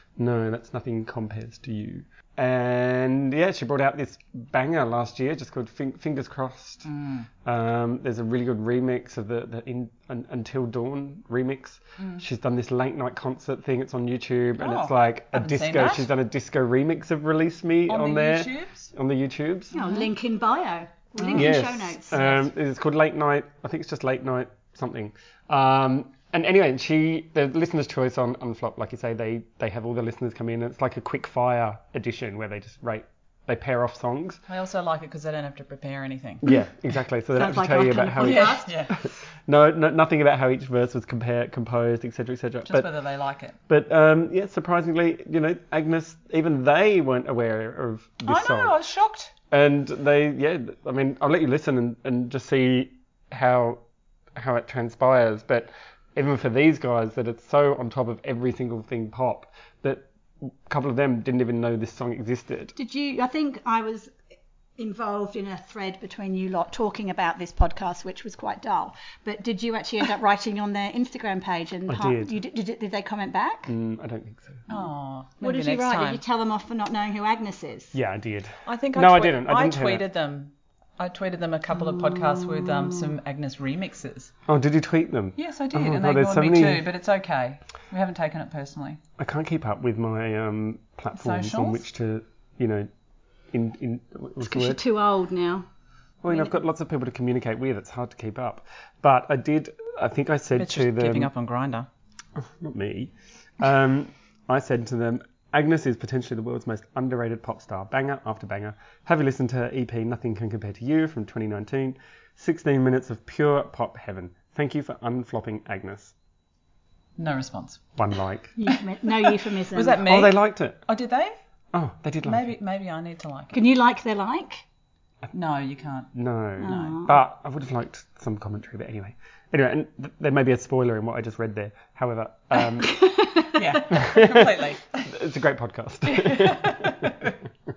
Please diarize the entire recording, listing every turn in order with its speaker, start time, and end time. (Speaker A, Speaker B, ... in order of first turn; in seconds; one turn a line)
Speaker A: 0.2-6.9
Speaker B: 6.8-7.3
Speaker A: 7.4-19.7
Speaker B: 14.6-16.1
Speaker B: 17.9-18.9
Speaker C: 19.7-22.2
Speaker B: 19.8-20.1
Speaker B: 21.2-21.5
Speaker A: 21.3-34.4
Speaker B: 22.1-22.4
Speaker B: 34.5-36.4
Speaker A: 36.4-42.9
Speaker C: 37.3-38.8
Speaker B: 38.2-39.0
Speaker B: 42.6-43.6
Speaker A: 43.7-48.8
Speaker B: 48.3-49.3
Speaker A: 49.5-53.8
Speaker A: 54.3-62.7
Speaker C: 62.8-64.1
Speaker C: 64.8-73.7
Speaker A: 71.9-72.3
Speaker A: 73.7-74.9
Speaker B: 74.7-76.2
Speaker C: 75.4-78.0
Speaker A: 77.9-80.0
Speaker B: 78.7-84.3
Speaker C: 82.1-82.6
Speaker A: 84.5-86.8
Speaker B: 85.4-89.0
Speaker A: 89.2-92.9
Speaker B: 91.1-91.8
Speaker A: 93.5-94.8
Speaker C: 94.4-95.7
Speaker A: 96.2-101.3
Speaker B: 100.6-101.9
Speaker A: 102.3-116.1
Speaker B: 117.2-117.8
Speaker A: 118.0-118.6
Speaker C: 118.6-120.0
Speaker B: 118.7-121.3
Speaker A: 120.0-120.8
Speaker A: 121.7-122.5
Speaker B: 122.2-123.6
Speaker C: 123.5-124.6
Speaker B: 125.3-127.0
Speaker A: 126.1-133.0
Speaker C: 126.6-127.1
Speaker C: 132.8-133.6
Speaker B: 133.5-135.1
Speaker A: 133.9-137.4
Speaker B: 136.1-137.3